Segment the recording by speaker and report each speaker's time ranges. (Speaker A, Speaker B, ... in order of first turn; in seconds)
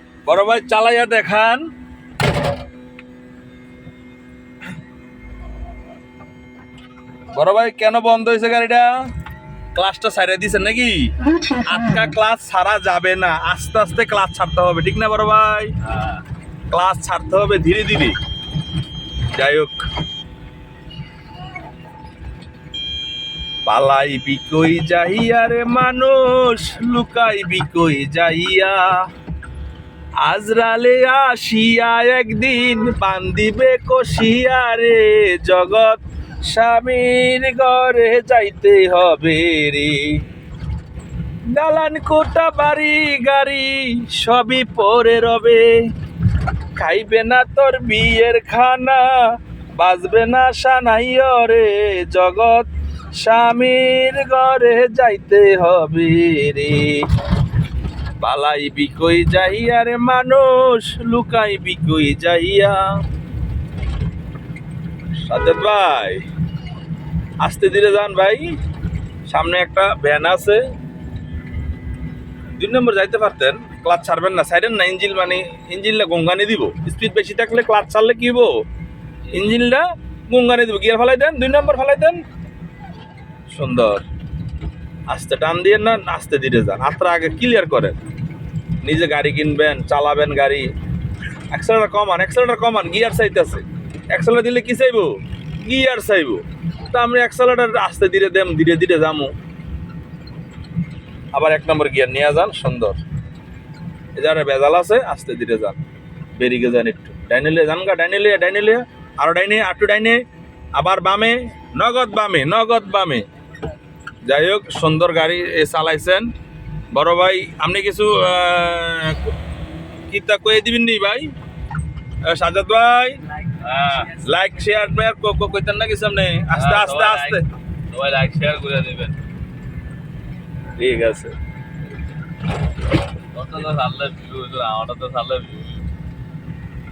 Speaker A: 0.2-1.7, 7.3-8.9, 9.7-15.7, 16.7-18.1, 19.3-19.8, 23.6-28.9, 30.2-40.2, 41.5-45.8, 46.7-57.0, 58.2-62.9, 65.2-66.2, 67.4-68.5, 69.3-70.6, 72.5-78.6, 79.3-82.2, 83.5-84.0, 85.1-88.0, 88.8-90.7, 91.5-99.3, 101.3-103.0, 104.1-105.8, 106.3-110.2, 110.7-113.2, 114.2-116.3, 116.9-119.3, 120.1-121.3, 122.3-123.2, 124.0-127.4, 130.8-131.3
Speaker B: 123.6-124.2, 126.5-129.2, 133.3-135.7